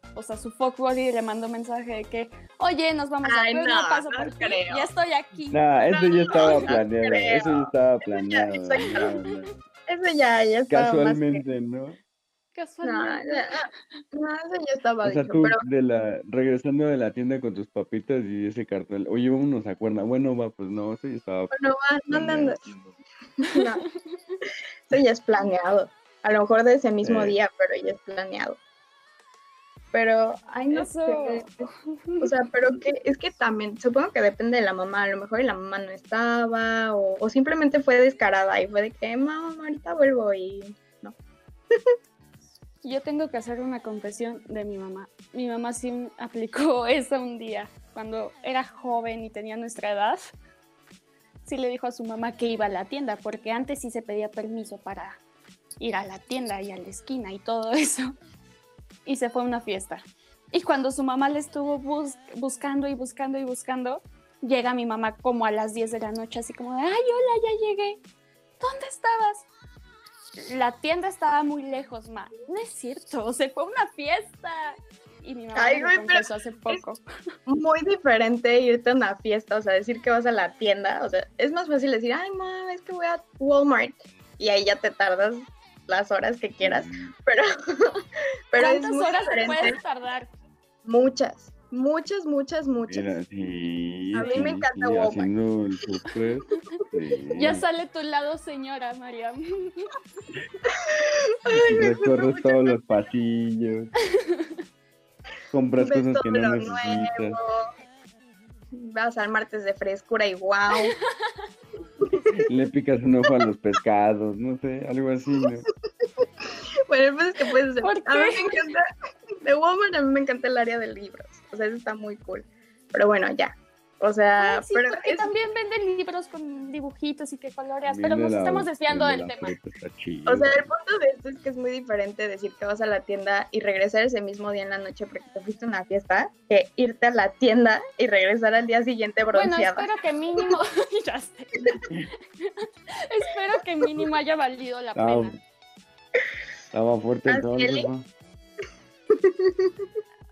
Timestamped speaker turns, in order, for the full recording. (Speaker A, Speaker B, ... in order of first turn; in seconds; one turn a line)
Speaker A: 0.1-5.6
Speaker B: 3.2-4.9
Speaker C: 5.5-9.5
Speaker B: 5.9-9.2
Speaker A: 6.4-6.7
Speaker B: 9.9-11.4
Speaker C: 10.7-12.0
Speaker A: 12.6-13.5
Speaker B: 12.8-15.6
Speaker C: 15.0-21.5
Speaker B: 21.5-22.6
Speaker C: 22.1-23.0
Speaker B: 23.4-23.8
Speaker B: 24.9-28.6
Speaker C: 27.0-27.4
Speaker B: 29.9-31.5
Speaker A: 30.7-32.3
Speaker B: 32.2-41.1
Speaker A: 42.8-50.2
Speaker A: 51.5-55.2
Speaker A: 55.8-58.1
Speaker A: 59.0-68.0
Speaker A: 68.6-69.5
Speaker A: 70.4-77.0
Speaker B: 75.5-76.8
Speaker B: 77.5-87.9
Speaker C: 86.6-87.1
Speaker B: 88.5-89.8
Speaker A: 88.6-90.3
Speaker B: 90.8-93.2
Speaker C: 92.9-97.6
Speaker B: 94.1-95.3
Speaker A: 94.2-94.5
Speaker A: 97.4-99.9
Speaker B: 100.7-102.8
Speaker C: 101.5-103.9
Speaker C: 105.5-107.4
Speaker B: 105.8-107.7
Speaker B: 108.7-111.0
Speaker B: 112.0-112.4
Speaker C: 112.4-115.7
Speaker B: 116.2-118.9
Speaker A: 117.8-118.6
Speaker B: 119.4-125.3
Speaker A: 124.4-129.6
Speaker C: 127.8-130.7
Speaker B: 130.3-139.9
Speaker A: 139.3-141.8
Speaker A: 142.6-145.4
Speaker C: 144.9-145.4
Speaker C: 146.7-148.1
Speaker B: 147.3-147.9
Speaker B: 149.1-149.7